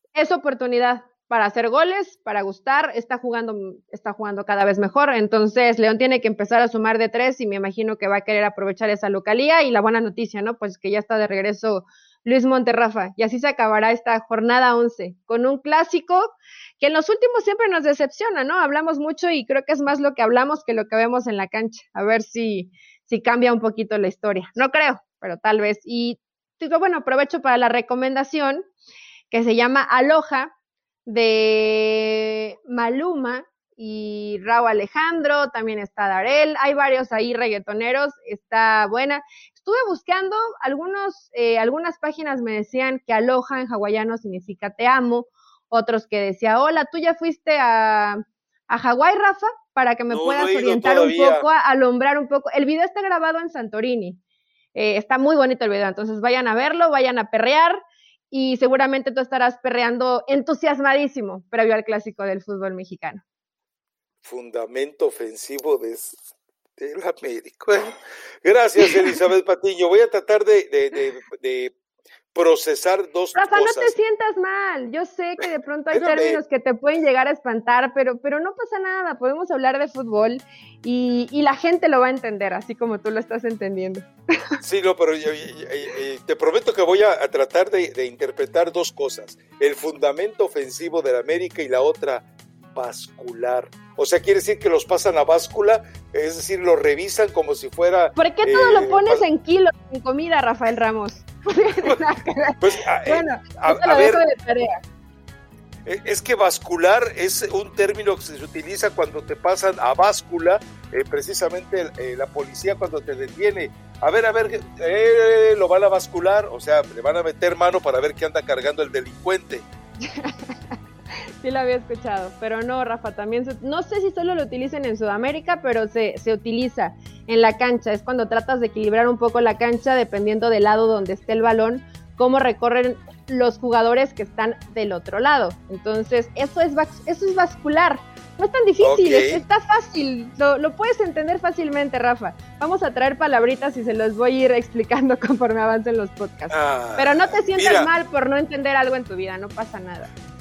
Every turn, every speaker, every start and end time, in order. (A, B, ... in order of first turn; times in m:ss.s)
0:00.1-0:28.6 A
0:29.3-0:30.5 A
0:31.0-0:54.2 A
0:50.1-0:51.4 B
0:54.7-1:03.2 A
1:04.2-1:06.2 B
1:06.8-1:11.7 B
1:12.3-1:13.9 B
1:13.4-1:24.1 A
1:15.9-1:16.4 B
1:24.6-1:39.2 B
1:38.2-1:44.8 A
1:42.6-1:44.2 B
1:45.8-1:59.6 B
2:00.0-2:00.6 A
2:01.4-2:30.1 A
2:18.8-2:19.4 B
2:26.5-2:27.9 B